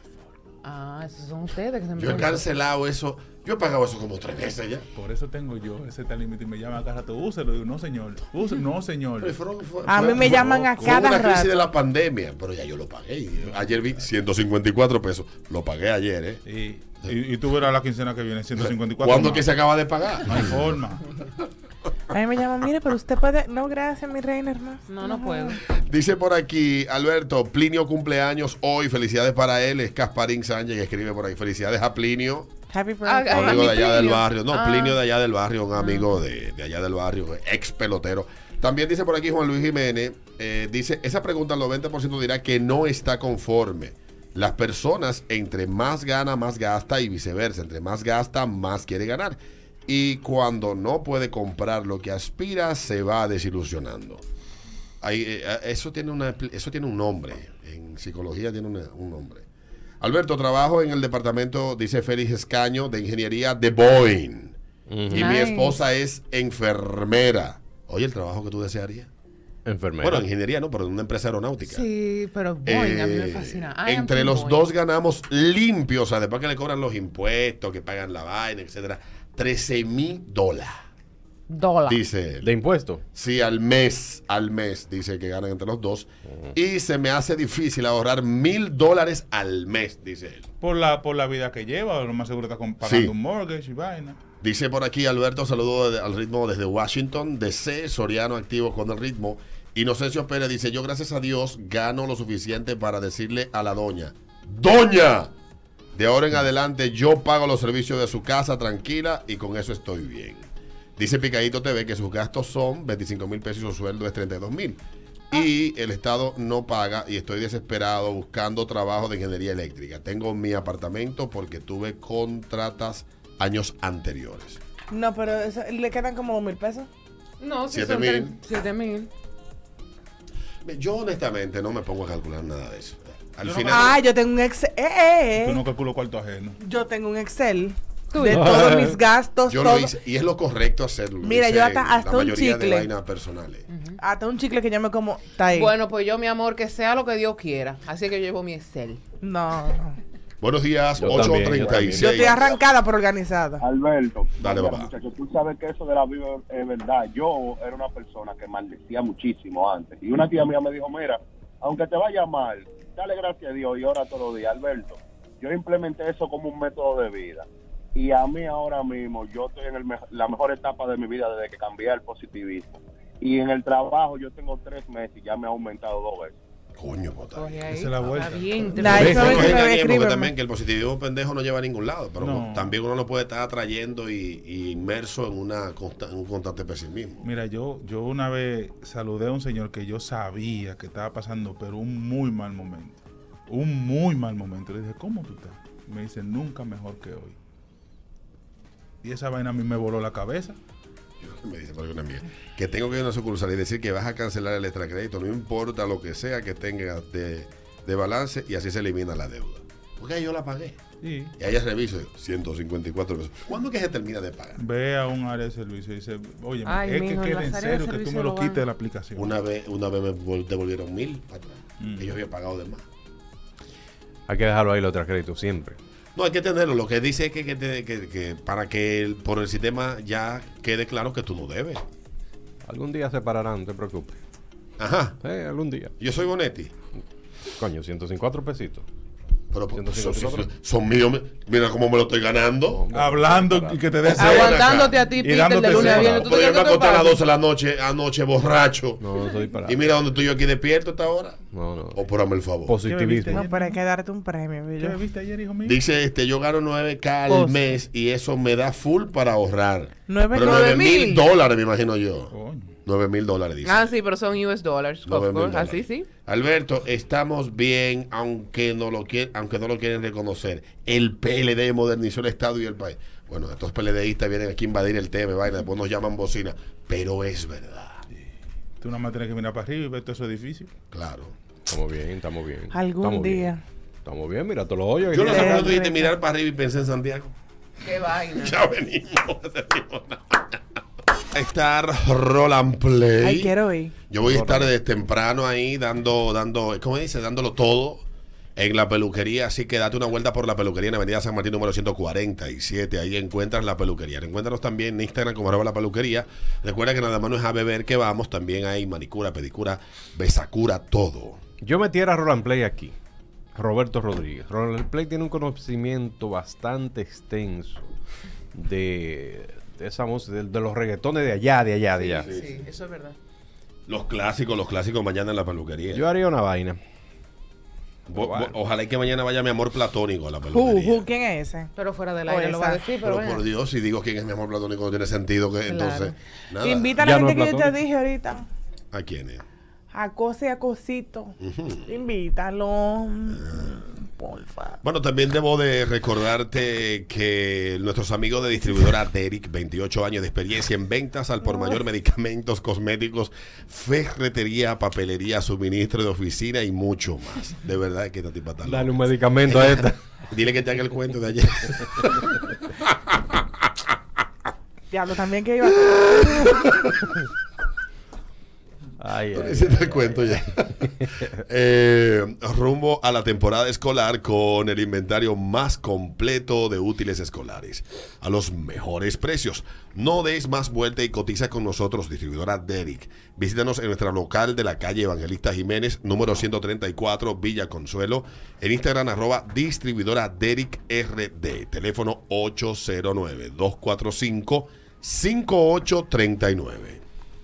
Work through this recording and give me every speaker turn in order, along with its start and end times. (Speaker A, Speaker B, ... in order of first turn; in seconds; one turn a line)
Speaker A: 0.6-2.4
Speaker B: 2.0-4.9
Speaker C: 5.0-9.4
Speaker B: 9.2-16.4
Speaker D: 9.9-11.6
Speaker C: 16.5-19.6
Speaker B: 18.6-20.6
Speaker C: 20.2-21.0
Speaker D: 22.1-25.6
Speaker A: 24.9-25.6
Speaker B: 25.7-32.5
Speaker D: 32.7-33.8
Speaker A: 33.0-35.0
Speaker B: 33.3-54.2
Speaker A: 35.8-36.1
Speaker B: 55.0-59.5
Speaker B: 60.0-64.6
Speaker E: 64.9-65.3
Speaker B: 65.1-69.1
Speaker A: 65.1-65.8
Speaker E: 69.7-70.3
Speaker B: 70.0-71.9
Speaker A: 71.7-74.7
Speaker B: 72.7-80.8
Speaker A: 81.5-82.0
Speaker B: 81.9-82.5
Speaker E: 82.4-83.0
Speaker B: 83.1-90.5
Speaker C: 90.6-94.2
Speaker B: 92.8-93.1
Speaker B: 94.4-105.3
Speaker B: 106.0-114.8
Speaker B: 115.3-124.6
Speaker D: 124.9-126.9
Speaker A: 127.4-129.1
Speaker B: 127.7-128.3
Speaker B: 130.7-134.0
Speaker C: 133.4-133.9
Speaker D: 133.6-135.7
Speaker C: 135.4-136.6
Speaker D: 136.6-139.9
Speaker A: 138.1-138.4
Speaker E: 138.3-139.0
Speaker B: 139.5-143.7
Speaker D: 141.2-142.9
Speaker A: 143.7-144.0
Speaker D: 144.0-145.7
Speaker A: 145.5-149.0
Speaker D: 149.2-150.0
Speaker B: 150.4-152.5
Speaker E: 151.0-152.3
Speaker D: 151.9-153.6
Speaker F: 153.6-176.4
Speaker B: 154.4-154.9
Speaker B: 176.8-177.6
Speaker A: 177.4-179.6
Speaker C: 177.7-179.5
Speaker D: 178.8-180.3
Speaker E: 178.9-179.4
Speaker B: 179.0-187.2
Speaker C: 182.2-182.8
Speaker C: 187.2-197.4
Speaker C: 199.0-200.6
Speaker B: 201.2-210.8
Speaker C: 211.0-211.3
Speaker B: 211.4-214.6
Speaker C: 214.6-219.4
Speaker A: 216.7-218.6
Speaker B: 219.2-222.8
Speaker C: 221.8-222.2
Speaker E: 224.3-225.8
Speaker B: 226.2-231.8
Speaker E: 232.7-234.2
Speaker B: 234.8-235.2
Speaker E: 235.2-235.9
Speaker B: 236.0-236.7
Speaker E: 237.6-238.8
Speaker B: 239.5-242.8
Speaker E: 239.7-240.5
Speaker E: 242.8-243.9
Speaker C: 242.9-246.3
Speaker B: 244.1-244.9
Speaker A: 244.2-247.2
Speaker B: 245.7-249.1
Speaker E: 245.9-246.3
Speaker E: 249.0-249.8
Speaker B: 249.7-251.4
Speaker E: 251.5-252.0
Speaker B: 251.9-252.8
Speaker E: 252.7-253.4
Speaker C: 252.8-253.8
Speaker D: 253.3-255.0
Speaker C: 254.8-255.8
Speaker B: 255.6-262.3
Speaker D: 257.3-257.6
Speaker D: 260.1-261.1
Speaker A: 260.4-261.2
Speaker C: 262.3-262.7
Speaker B: 262.9-263.9
Speaker A: 263.6-266.1
Speaker B: 265.1-278.0
Speaker C: 278.8-280.7
Speaker B: 280.9-281.3
Speaker E: 281.7-283.5
Speaker D: 282.7-283.6
Speaker E: 284.1-285.8
Speaker B: 285.1-287.3
Speaker D: 285.2-286.1
Speaker A: 287.8-288.6
Speaker B: 288.4-290.6
Speaker B: 291.3-293.5
Speaker D: 293.2-294.0
Speaker B: 294.1-298.0
Speaker E: 294.2-294.7
Speaker B: 298.6-311.4
Speaker E: 311.6-312.9
Speaker E: 313.6-317.9
Speaker E: 318.5-322.3
Speaker A: 321.9-323.2
Speaker B: 322.2-322.6
Speaker B: 323.9-326.1
Speaker E: 325.9-326.8
Speaker B: 328.1-331.1
Speaker E: 328.1-328.5
Speaker D: 330.5-331.7
Speaker A: 331.8-333.4
Speaker D: 332.3-332.8
Speaker B: 333.0-337.0
Speaker A: 335.7-336.1
Speaker D: 336.6-338.5
Speaker E: 337.0-337.8
Speaker B: 338.9-339.4
Speaker D: 339.9-344.8
Speaker B: 341.4-341.9
Speaker B: 343.4-343.9
Speaker B: 344.8-363.4
Speaker E: 358.6-360.0
Speaker D: 364.9-366.5
Speaker B: 365.9-367.0
Speaker E: 369.0-370.4
Speaker B: 369.3-397.0